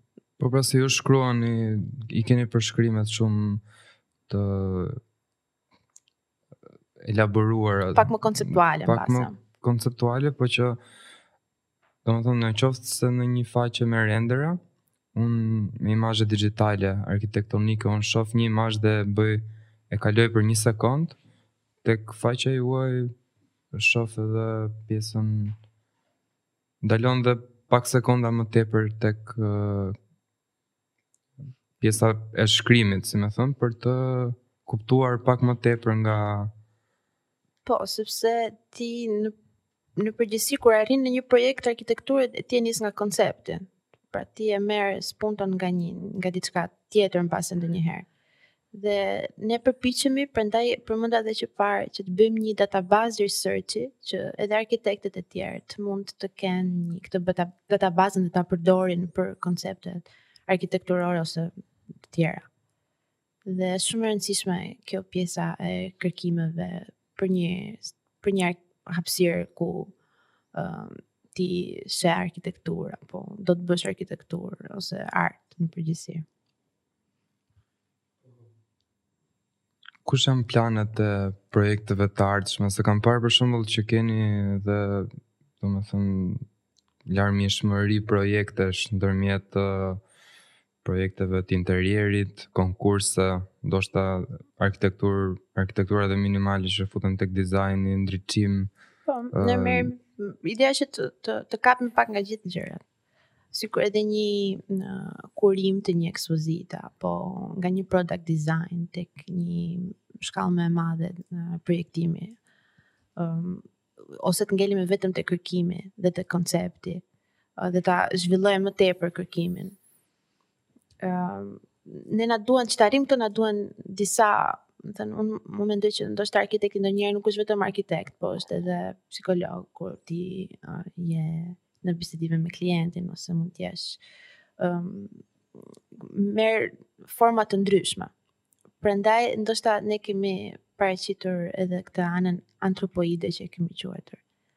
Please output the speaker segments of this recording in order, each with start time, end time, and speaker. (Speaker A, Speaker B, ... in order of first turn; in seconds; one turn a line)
Speaker A: 0.4-3.6
Speaker A: 4.3-5.0
Speaker A: 7.0-10.8
Speaker B: 8.0-9.4
Speaker A: 12.1-14.6
Speaker A: 15.1-21.2
Speaker A: 21.8-23.1
Speaker A: 23.7-25.6
Speaker A: 26.8-29.9
Speaker A: 31.8-36.5
Speaker B: 37.6-39.3
Speaker B: 40.0-48.1
Speaker B: 48.7-61.5
Speaker B: 62.1-62.5
Speaker B: 63.5-69.9
Speaker B: 70.5-76.2
Speaker A: 80.0-86.4
Speaker A: 87.1-90.0
Speaker A: 90.8-98.7
Speaker B: 99.1-102.8
Speaker A: 99.3-99.9
Speaker B: 103.5-112.4
Speaker B: 113.2-113.7
Speaker B: 114.2-117.0
Speaker B: 117.6-119.8
Speaker B: 121.0-134.0
Speaker B: 134.6-135.2
Speaker B: 136.0-138.1
Speaker B: 138.8-144.2